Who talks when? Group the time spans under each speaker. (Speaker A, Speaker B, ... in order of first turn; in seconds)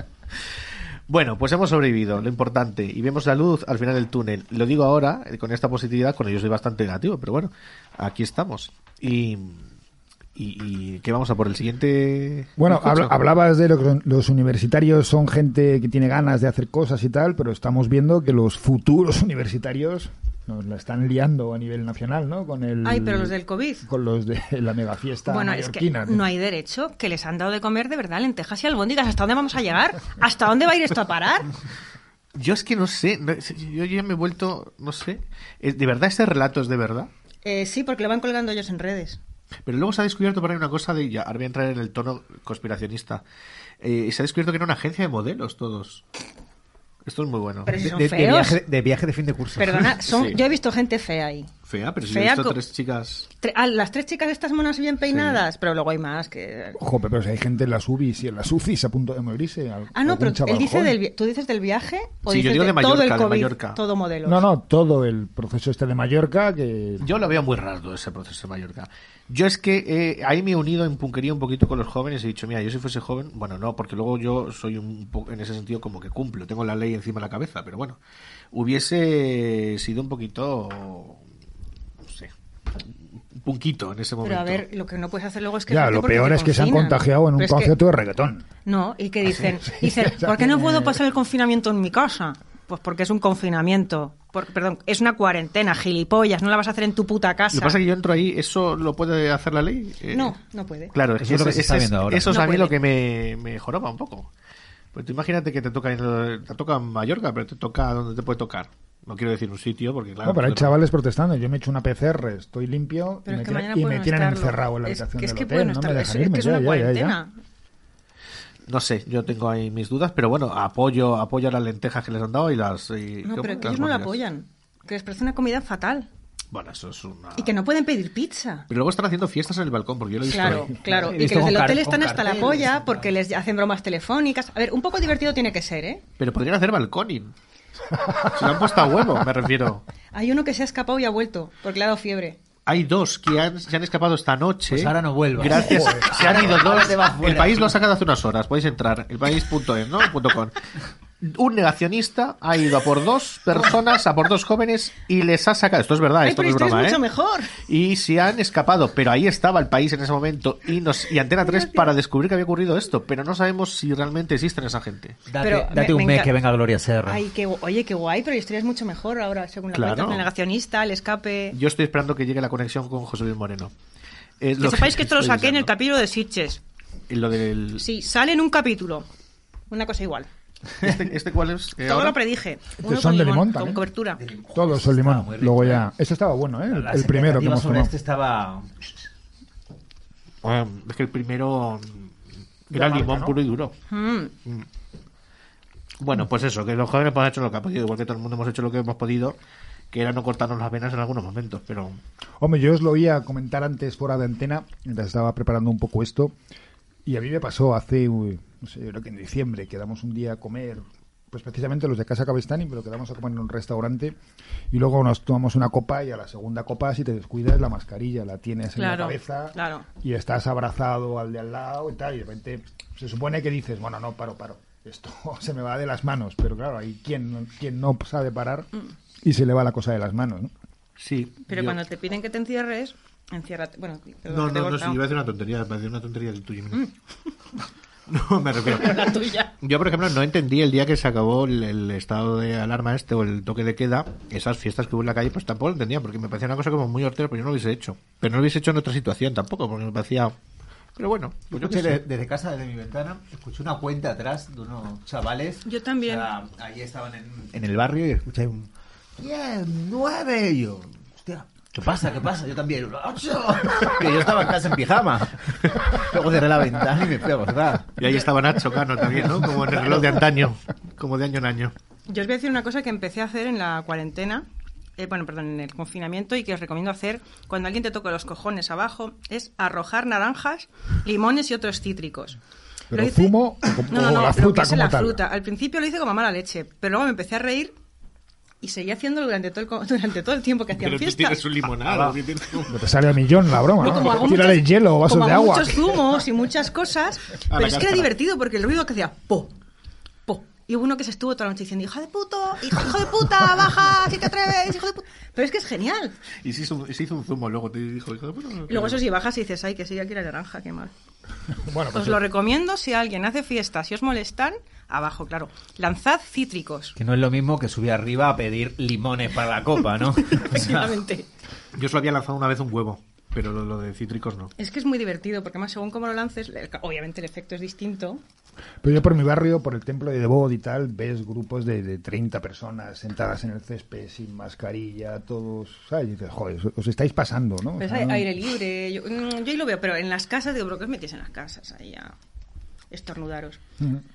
Speaker A: 1.1-9.7, 10.4-13.1, 32.4-37.1, 39.6-43.2, 43.8-46.0, 47.0-47.8, 50.0-50.4, 51.6-53.3, 55.1-55.4, 62.3-63.8, 67.0-78.0, 78.5-81.2, 82.0-84.6, 97.5-100.3, 100.9-104.3, 104.9-110.8, 118.7-124.2, 126.5-127.5, 128.7-130.8, 136.2-137.3, 138.2-139.8, 142.7-150.6, 151.2-157.0, 157.6-165.2, 169.7-170.3, 171.5-173.7, 174.4-175.7, 177.1-177.8, 180.8-182.2, 190.4-192.1, 192.7-193.7, 196.0-199.4, 199.9-202.0, 231.0-231.8, 234.3-236.9, 238.1-250.3, 251.0-252.0, 268.0-271.7, 290.8-292.8, 297.5-298.1, 306.3-309.0, 321.8-324.5
Speaker B: 12.6-26.3, 56.8-61.0, 64.2-67.1, 85.7-88.5, 89.8-91.0, 110.2-117.2, 138.0-138.5, 145.8-146.0, 182.8-183.8, 184.5-187.9, 192.7-193.4, 202.4-206.3, 207.1-214.2, 214.7-228.7, 229.2-230.5, 282.9-285.2, 292.7-296.0, 311.6-312.2, 328.8-338.3
Speaker C: 22.8-23.9, 25.3-31.5, 37.4-39.2, 47.6-48.6, 49.6-51.5, 52.1-52.6, 53.4-56.8, 59.9-64.5, 84.2-87.8, 88.7-97.8, 100.1-100.9, 102.3-102.7, 113.3-117.3, 123.2-126.1, 127.4-128.7, 130.2-136.0, 140.1-142.4, 156.2-157.6, 161.4-161.9, 165.4-166.3, 167.1-171.6, 174.6-176.6, 177.8-179.1, 179.7-180.3, 181.8-184.2, 193.9-194.3, 218.8-219.9, 231.5-235.0, 238.6-239.5, 255.6-256.3, 272.1-274.5, 275.0-282.4, 282.9-287.8, 288.6-291.5, 293.8-299.5, 300.3-306.2, 308.7-310.9, 311.9-317.0, 320.2-321.3, 324.6-328.2, 337.8-342.1, 342.9-343.6
Speaker D: 47.7-49.9, 101.2-102.4, 130.9-133.1, 144.7-147.8, 165.3-167.2, 184.1-185.9, 186.7-188.7, 251.5-268.0, 317.0-321.0